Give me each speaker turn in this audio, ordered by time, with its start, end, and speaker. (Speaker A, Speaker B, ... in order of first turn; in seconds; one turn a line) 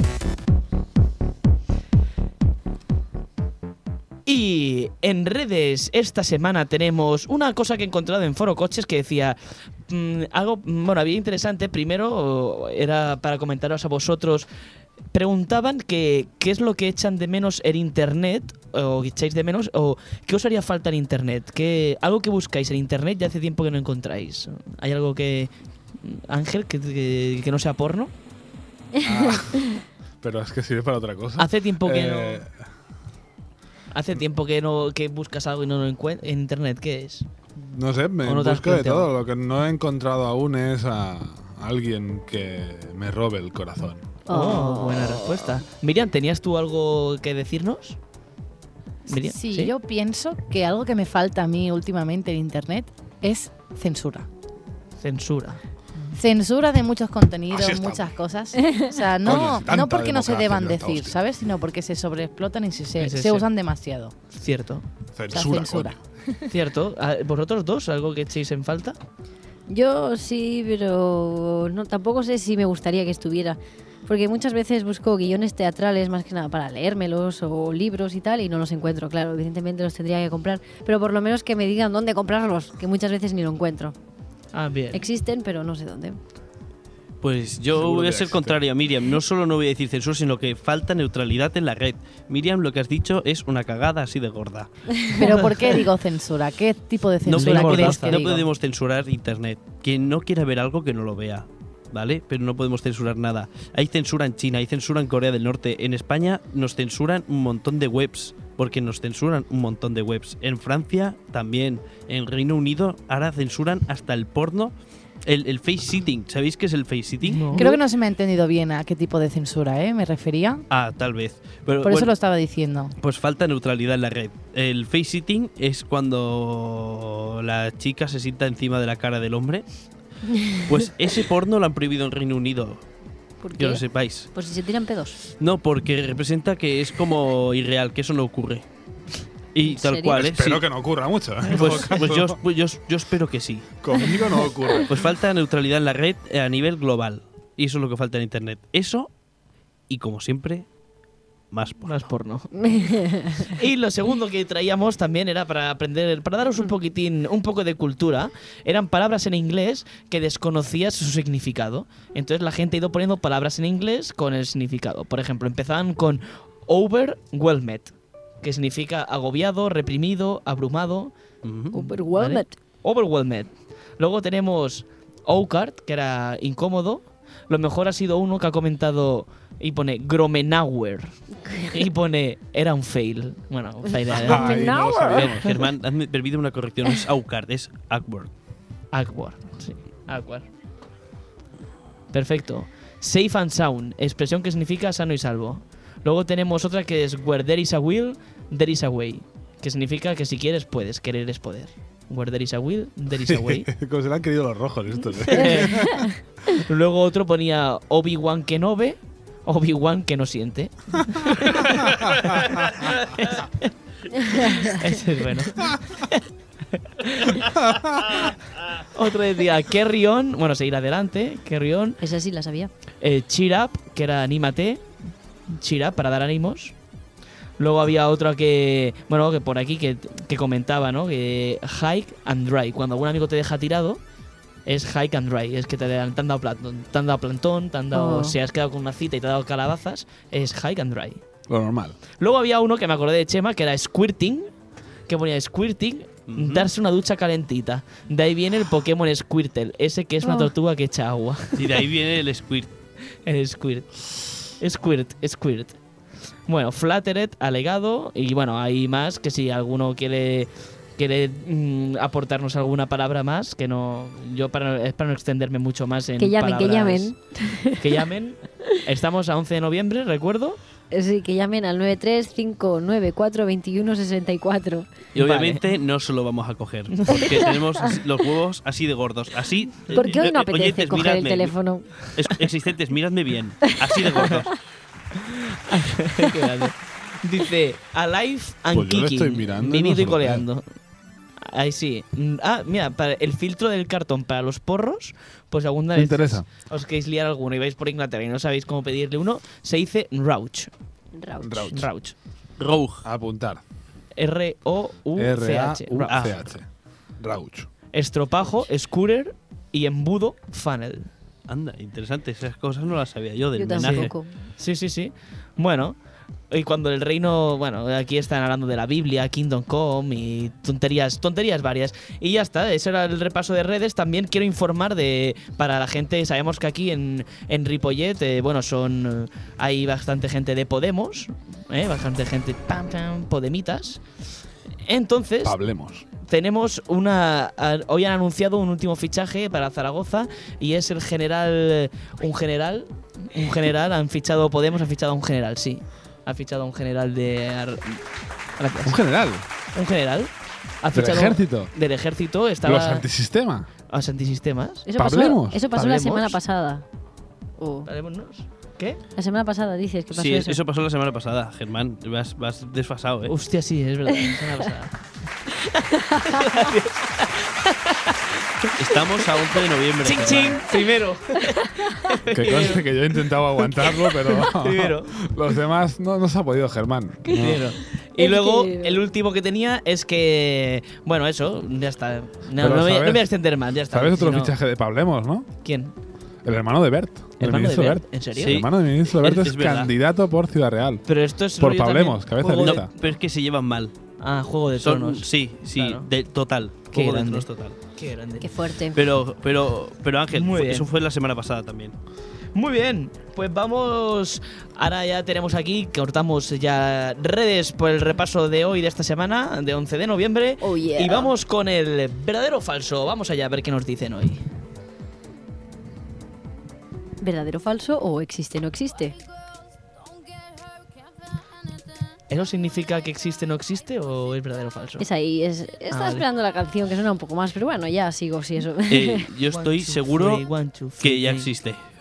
Speaker A: 4.2-14.5
Speaker A: 15.1-28.1
Speaker B: 29.0-29.8
Speaker C: 29.0-29.7
Speaker C: 30.2-32.5
Speaker A: 31.4-32.4
Speaker A: 33.9-37.2
Speaker C: 37.5-44.0
Speaker A: 38.2-39.1
Speaker B: 44.3-45.3
Speaker A: 44.3-48.0
Speaker A: 49.1-49.7
Speaker D: 49.1-54.3
Speaker A: 55.0-55.6
Speaker D: 56.2-64.1
Speaker C: 57.5-58.1
Speaker C: 59.2-61.2
Speaker A: 63.0-63.4
Speaker A: 64.3-64.8
Speaker C: 65.1-66.0
Speaker D: 65.3-66.5
Speaker A: 66.5-69.0
Speaker B: 69.7-83.9
Speaker A: 84.5-85.0
Speaker B: 84.9-86.2
Speaker E: 87.2-95.0
Speaker C: 87.7-88.5
Speaker B: 95.0-95.2
Speaker D: 95.1-98.5
Speaker A: 95.2-95.7
Speaker E: 97.2-117.5
Speaker A: 97.3-98.3
Speaker A: 117.2-117.7
Speaker D: 117.5-120.7
Speaker B: 117.5-117.8
Speaker E: 120.7-122.1
Speaker D: 121.8-122.9
Speaker E: 123.0-129.6
Speaker E: 130.5-132.8
Speaker B: 133.4-135.2
Speaker E: 133.6-134.3
Speaker E: 135.3-138.7
Speaker E: 139.5-140.6
Speaker B: 139.6-140.2
Speaker C: 140.1-142.4
Speaker A: 141.4-142.0
Speaker E: 141.5-143.8
Speaker C: 143.8-144.9
Speaker E: 144.9-149.1
Speaker E: 149.9-150.7
Speaker E: 151.5-152.0
Speaker A: 151.8-167.9
Speaker B: 152.5-153.5
Speaker A: 168.4-171.1
Speaker E: 171.4-171.7
Speaker B: 171.7-172.6
Speaker A: 171.8-184.6
Speaker B: 181.5-181.8
Speaker C: 184.1-185.5
Speaker B: 184.1-185.3
Speaker E: 185.1-188.3
Speaker A: 188.9-190.4
Speaker A: 192.1-203.7
Speaker C: 203.2-206.0
Speaker A: 205.3-205.9
Speaker B: 205.3-206.2
Speaker A: 206.5-213.7
Speaker C: 211.8-212.6
Speaker B: 214.1-214.8
Speaker A: 214.3-216.2
Speaker A: 216.7-222.0
Speaker C: 217.6-217.9
Speaker B: 222.0-222.7
Speaker A: 223.0-224.8
Speaker A: 225.5-226.7
Speaker A: 227.6-234.0
Speaker A: 234.7-241.2
Speaker B: 237.9-238.3
Speaker C: 241.5-241.9
Speaker A: 242.2-244.5
Speaker A: 245.1-251.8
Speaker E: 246.3-246.7
Speaker B: 250.2-250.5
Speaker E: 251.5-252.7
Speaker A: 253.2-255.8
Speaker A: 256.5-267.1
Speaker B: 266.2-268.0
Speaker A: 267.7-270.6
Speaker B: 270.9-274.9
Speaker E: 275.1-281.5
Speaker A: 275.2-275.6
Speaker A: 276.9-277.4
Speaker B: 279.9-281.9
Speaker E: 282.1-284.6
Speaker A: 285.1-290.6
Speaker C: 288.7-290.4
Speaker A: 291.4-300.7
Speaker C: 295.9-296.5
Speaker B: 301.2-301.7
Speaker C: 301.4-301.9
Speaker A: 301.6-302.1
Speaker E: 302.6-303.0
Speaker C: 303.0-303.6
Speaker A: 304.2-306.2
Speaker C: 305.2-306.6
Speaker E: 306.1-306.4
Speaker C: 307.2-307.7
Speaker A: 307.9-311.1
Speaker E: 311.5-314.1
Speaker B: 313.5-314.3
Speaker A: 313.8-315.9
Speaker A: 316.5-334.0
Speaker A: 334.8-335.6
Speaker C: 335.4-336.0
Speaker A: 336.2-348.0
Speaker A: 348.6-349.0
Speaker C: 348.8-349.4
Speaker A: 349.7-350.3
Speaker A: 350.8-353.1
Speaker C: 350.9-351.7
Speaker C: 352.6-353.7
Speaker A: 353.9-354.9
Speaker B: 354.9-356.8
Speaker C: 355.0-355.6
Speaker A: 355.7-356.4
Speaker B: 357.6-357.9
Speaker A: 357.9-359.0
Speaker B: 359.2-360.6
Speaker E: 360.1-363.3
Speaker A: 363.3-364.9
Speaker B: 365.9-366.7
Speaker A: 366.2-369.0
Speaker E: 368.8-370.6
Speaker A: 370.0-372.9
Speaker B: 371.5-372.0
Speaker C: 372.3-377.7
Speaker A: 373.7-375.2
Speaker A: 377.3-384.5
Speaker B: 378.2-379.0
Speaker C: 382.6-383.3
Speaker C: 383.9-385.5
Speaker A: 385.6-385.9
Speaker C: 386.4-391.0
Speaker A: 387.4-388.6
Speaker E: 388.4-389.9
Speaker A: 391.1-392.9
Speaker C: 391.6-392.9
Speaker E: 392.5-393.9
Speaker A: 394.2-396.1
Speaker E: 394.8-397.8
Speaker A: 396.9-398.5
Speaker B: 398.4-399.0
Speaker E: 398.9-401.9
Speaker A: 400.3-400.9
Speaker A: 402.5-414.4
Speaker B: 410.6-411.3
Speaker B: 417.2-419.1
Speaker A: 422.3-425.0
Speaker B: 425.0-429.3
Speaker A: 425.9-426.2
Speaker E: 428.9-430.4
Speaker A: 429.5-431.5
Speaker E: 431.0-431.8